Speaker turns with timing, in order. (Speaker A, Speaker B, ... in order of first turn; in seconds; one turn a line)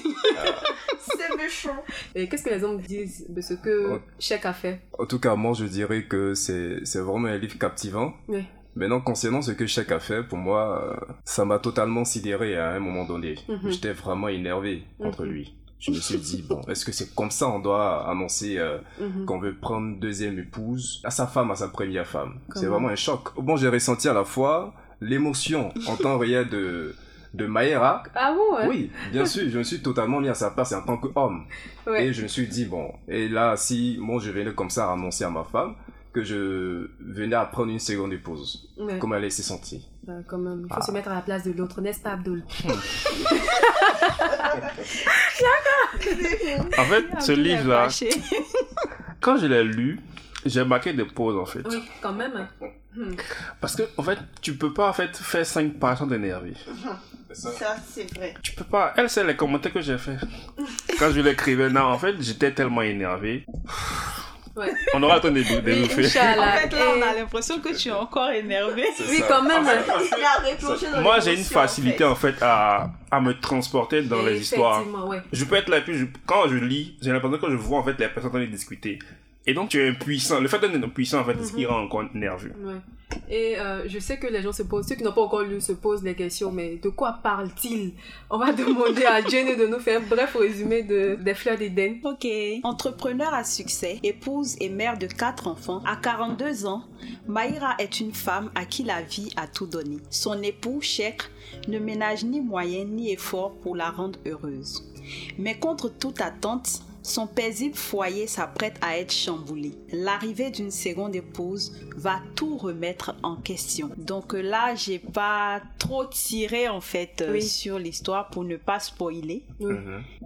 Speaker A: 0.3-1.8
Speaker B: 0.3-0.7
Speaker C: 2.1-4.8
Speaker B: 4.9-8.2
Speaker B: 8.7-28.1
Speaker C: 13.5-13.8
Speaker C: 15.0-15.3
Speaker C: 19.0-19.3
Speaker C: 22.5-22.9
Speaker C: 28.1-28.8
Speaker B: 28.6-39.9
Speaker C: 38.8-39.0
Speaker C: 40.0-46.6
Speaker A: 46.0-46.7
Speaker D: 46.7-48.0
Speaker E: 46.8-48.9
Speaker D: 49.2-51.8
Speaker C: 51.6-53.2
Speaker D: 53.6-56.6
Speaker A: 56.8-58.4
Speaker B: 57.3-57.6
Speaker D: 58.4-64.2
Speaker C: 64.5-64.9
Speaker D: 64.8-66.6
Speaker C: 65.6-67.2
Speaker E: 65.8-69.3
Speaker B: 67.7-68.0
Speaker B: 68.9-69.9
Speaker C: 69.0-70.0
Speaker D: 69.5-82.5
Speaker A: 69.5-72.1
Speaker C: 74.1-75.2
Speaker C: 81.3-81.7
Speaker C: 82.5-92.0
Speaker E: 92.0-104.8
Speaker E: 105.4-119.5
Speaker C: 117.3-117.5
Speaker C: 119.6-119.8
Speaker B: 119.7-120.0